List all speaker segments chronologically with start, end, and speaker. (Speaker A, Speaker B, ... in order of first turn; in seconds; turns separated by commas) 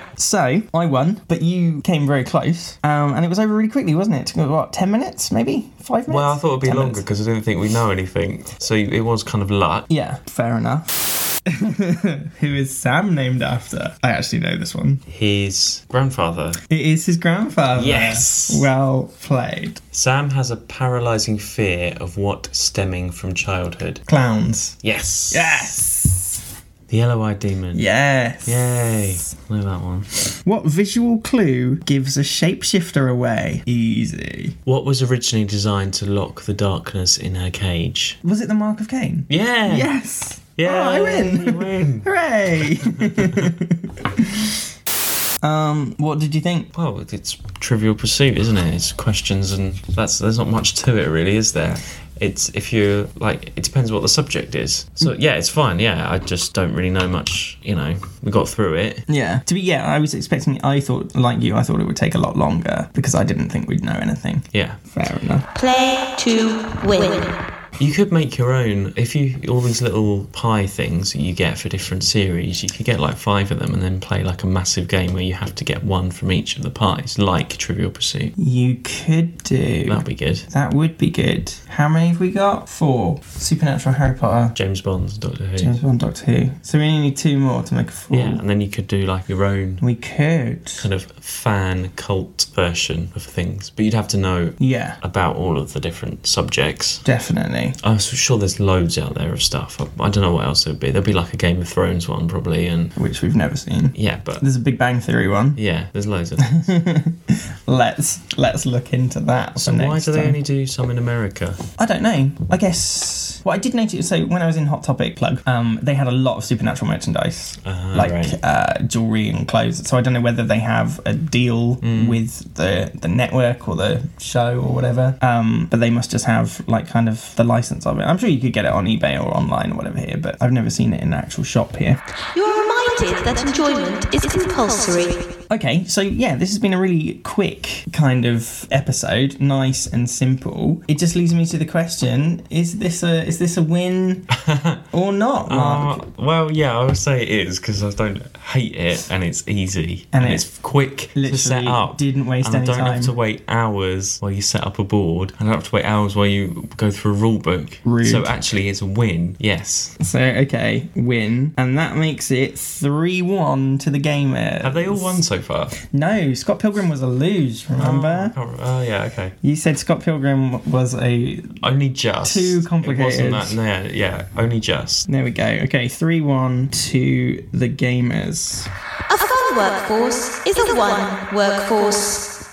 Speaker A: 0.2-7.0, Speaker B: 6.1-9.9, Speaker A: 9.9-15.0, Speaker B: 15.1-16.6, Speaker A: 16.7-19.8, Speaker B: 17.7-18.7, Speaker B: 19.9-24.0, Speaker A: 24.1-24.8, Speaker B: 24.8-25.7, Speaker A: 25.3-26.4, Speaker B: 26.9-27.9, Speaker A: 27.7-29.0, Speaker B: 28.4-30.1, Speaker A: 30.4-34.6, Speaker B: 34.6-38.2, Speaker A: 38.2-44.3, Speaker B: 39.3-39.9, Speaker B: 40.6-42.1, Speaker B: 42.6-43.5, Speaker A: 45.4-46.7, Speaker B: 46.7-59.0, Speaker A: 59.1-65.5, Speaker B: 64.5-64.8, Speaker C: 65.5-67.4, Speaker B: 67.8-78.3, Speaker A: 78.4-84.6, Speaker B: 79.8-80.5, Speaker B: 84.5-85.7, Speaker A: 85.6-88.4, Speaker B: 88.1-89.8, Speaker A: 89.8-90.8, Speaker B: 90.8-97.1, Speaker A: 94.6-95.0, Speaker A: 97.0-97.8, Speaker B: 97.8-102.9, Speaker A: 103.0-105.6, Speaker B: 103.9-104.4, Speaker B: 105.5-106.7, Speaker A: 106.4-110.4, Speaker B: 109.6-111.6, Speaker A: 111.8-132.0, Speaker B: 117.6-118.4, Speaker B: 121.8-122.2, Speaker C: 132.3-135.2, Speaker A: 135.5-144.3, Speaker B: 144.3-144.8, Speaker A: 144.9-146.0, Speaker B: 145.5-160.0, Speaker A: 150.1-150.4, Speaker A: 151.1-153.1, Speaker A: 157.8-158.3, Speaker A: 160.0-165.2, Speaker B: 164.6-165.8, Speaker A: 165.9-168.3, Speaker B: 167.7-169.3, Speaker A: 169.4-171.6, Speaker B: 171.6-175.1, Speaker A: 172.2-173.6, Speaker A: 175.1-178.7, Speaker C: 179.1-182.3